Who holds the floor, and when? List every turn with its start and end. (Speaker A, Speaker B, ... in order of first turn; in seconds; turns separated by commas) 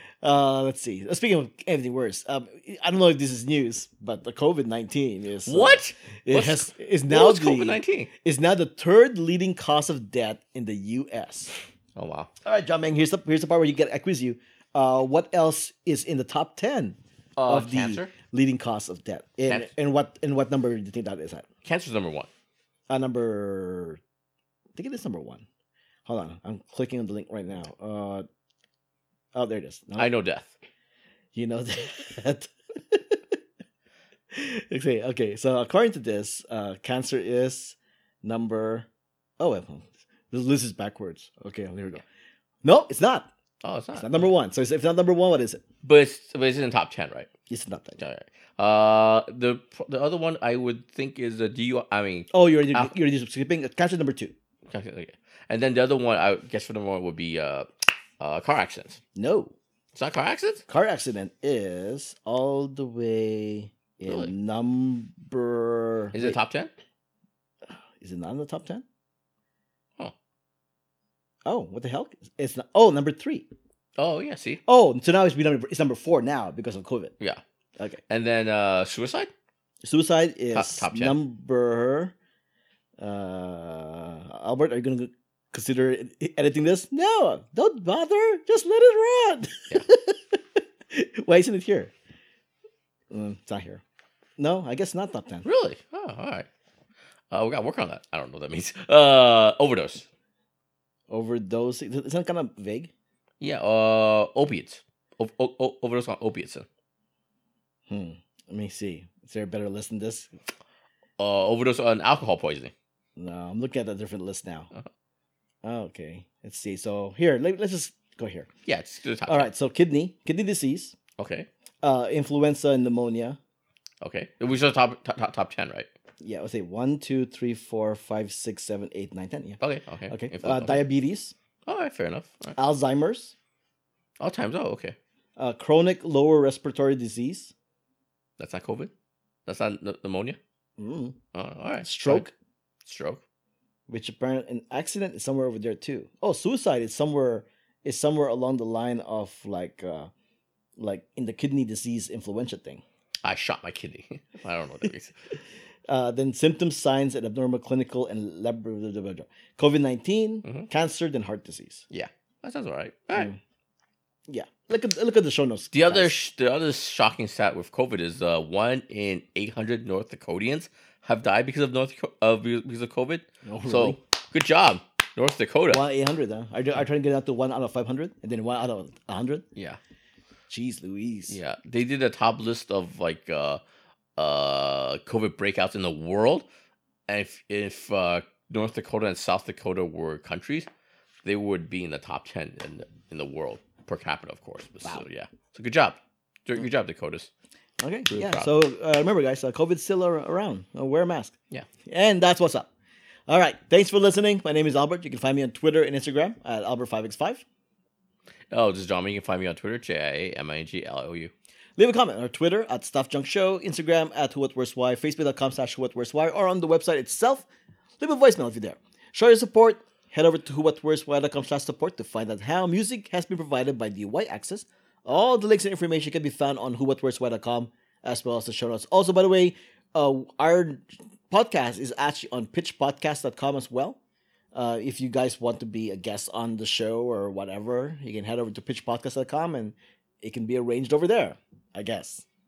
Speaker A: 0.2-11.6, Speaker B: 5.5-8.1, Speaker B: 12.0-12.3, Speaker A: 12.4-21.5, Speaker B: 17.4-18.1, Speaker B: 21.6-22.3, Speaker A: 22.9-24.0, Speaker A: 24.8-25.4, Speaker A: 26.1-28.2, Speaker A: 29.3-30.1, Speaker B: 30.0-30.5, Speaker A: 31.3-33.2, Speaker A: 34.3-38.9, Speaker A: 39.4-42.0, Speaker A: 42.6-43.3, Speaker B: 43.6-44.3, Speaker A: 44.0-45.6, Speaker B: 45.8-47.3, Speaker A: 47.5-48.0, Speaker B: 48.0-52.9, Speaker A: 52.3-54.3, Speaker B: 54.7-57.7, Speaker B: 58.2-59.0, Speaker A: 59.1-59.5, Speaker B: 60.0-60.6, Speaker A: 60.7-66.4, Speaker B: 66.1-66.7, Speaker A: 68.0-68.8, Speaker A: 71.5-73.5, Speaker B: 74.0-74.6, Speaker A: 74.7-77.1, Speaker B: 78.1-79.3, Speaker A: 79.8-82.1, Speaker B: 80.5-81.2, Speaker A: 83.0-91.9, Speaker A: 93.1-93.8, Speaker A: 94.4-95.5, Speaker B: 95.5-96.5, Speaker B: 97.3-100.1, Speaker A: 101.1-102.9, Speaker B: 103.4-106.7, Speaker A: 107.9-110.3, Speaker B: 111.2-112.7, Speaker A: 113.2-114.7, Speaker A: 115.6-118.5, Speaker B: 118.7-119.5, Speaker A: 119.3-121.0, Speaker B: 121.2-121.5, Speaker A: 121.8-123.4, Speaker B: 124.0-125.9, Speaker A: 126.2-131.3, Speaker B: 129.6-130.8, Speaker B: 131.7-132.6, Speaker A: 132.6-133.3, Speaker B: 134.2-135.0, Speaker A: 135.4-137.5, Speaker B: 138.4-138.9, Speaker B: 139.5-140.4, Speaker A: 140.8-141.2, Speaker B: 141.3-142.3, Speaker A: 141.8-142.3, Speaker B: 142.9-143.2, Speaker A: 143.9-150.1, Speaker A: 150.8-152.8, Speaker B: 153.2-155.1, Speaker A: 155.9-161.8, Speaker B: 161.9-163.3, Speaker A: 164.3-166.1, Speaker B: 165.7-175.8, Speaker A: 173.4-174.0, Speaker A: 175.7-179.4, Speaker A: 180.5-181.4, Speaker B: 181.3-183.6, Speaker B: 184.2-186.5, Speaker B: 187.1-190.7, Speaker B: 191.2-197.3, Speaker A: 197.8-201.3, Speaker B: 198.1-198.5, Speaker A: 201.9-202.7, Speaker A: 203.3-207.4, Speaker B: 208.5-211.3, Speaker A: 211.8-217.5, Speaker A: 218.0-234.0, Speaker A: 234.5-242.2